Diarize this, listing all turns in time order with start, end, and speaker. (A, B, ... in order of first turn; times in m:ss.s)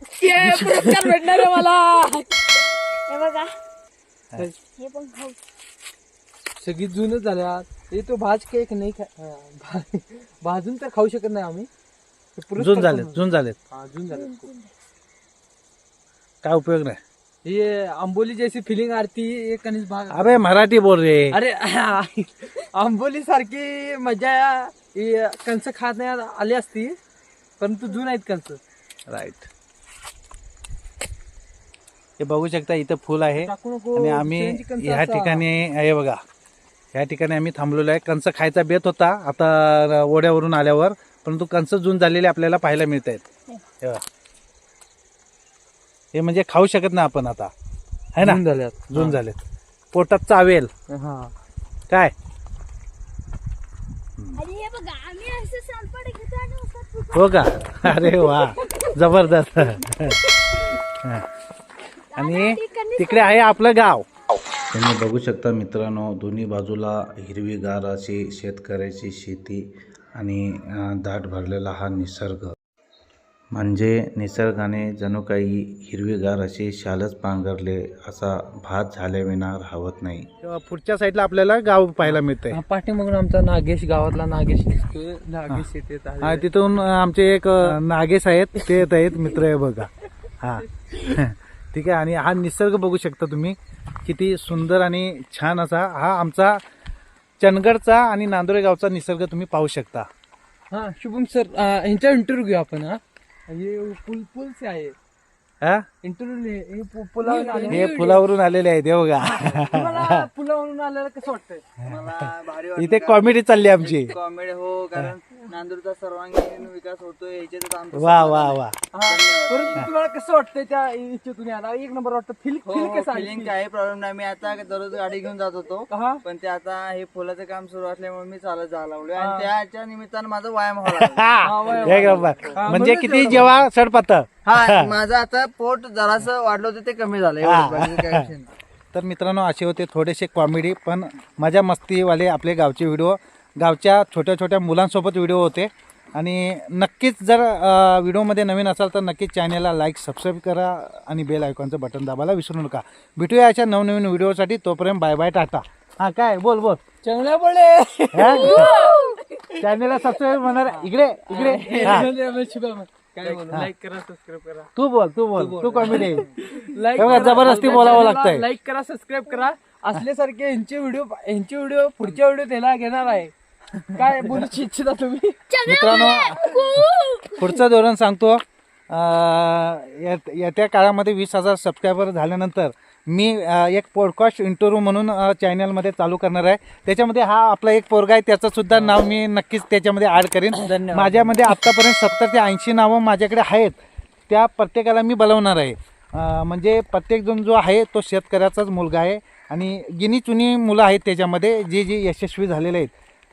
0:00.2-0:02.0 A
0:00.2-0:02.3 B
0:02.9-0:03.6 A
0:04.7-0:05.4 A
0:06.6-0:11.7 B
0:12.4-0:14.5 B
0:12.6-0:13.6 C
0:14.1-0:14.7 A
0:16.4-0:17.0 C
0:17.4-0:20.5 B
0:20.1-0:21.4 C
0:21.3-0:27.0 B
0:27.6-0:28.6 B
0:29.1-0:29.5 C
0:32.2-0:36.2 C
0:33.4-0:35.4 B
0:36.9-0:43.2 C
0:46.1-0:47.5 C
0:48.2-0:49.4 C
0:48.2-0:49.2 B
0:49.9-0:50.7 C
0:50.9-0:51.3 B
0:54.2-0:54.4 C
0:54.3-0:58.9 A
0:57.1-1:01.3 C
1:00.0-1:00.6 A
1:02.1-1:03.4 A
1:02.1-1:04.0 C
1:04.7-1:12.5 D
1:13.5-1:20.3 D
1:20.4-1:22.6 C
1:22.0-1:26.5 B
1:26.2-1:36.6 C
1:37.4-1:40.1 C
1:40.7-1:44.9 B
1:46.0-1:48.3 B
1:47.2-1:47.7 A
1:47.7-1:50.2 C
1:49.3-1:51.6 B
1:51.8-1:59.9 E
1:52.8-1:54.1 C
1:57.9-1:58.7 C
1:58.9-2:03.6 B
2:02.6-2:12.8 E
2:05.9-2:06.2 B
2:09.2-2:09.5 B
2:10.9-2:14.9 C
2:11.4-2:13.6 B
2:14.4-2:18.5 E
2:17.4-2:18.3 C
2:18.9-2:36.8 C
2:37.0-2:39.0 B
2:38.1-2:38.7 C
2:38.3-2:39.2 A
2:39.6-2:42.1 C
2:40.7-2:42.1 E
2:41.3-2:44.7 B
2:43.2-2:43.4 E
2:44.8-2:46.3 C
2:45.4-2:46.2 E
2:45.7-2:53.3 B
2:47.0-2:48.4 C
2:47.0-2:47.6 E
2:53.9-2:56.8 B
2:55.5-2:57.4 A
2:55.6-2:56.4 C
2:57.3-3:13.8 C
3:10.6-3:11.3 E
3:14.3-3:22.9 C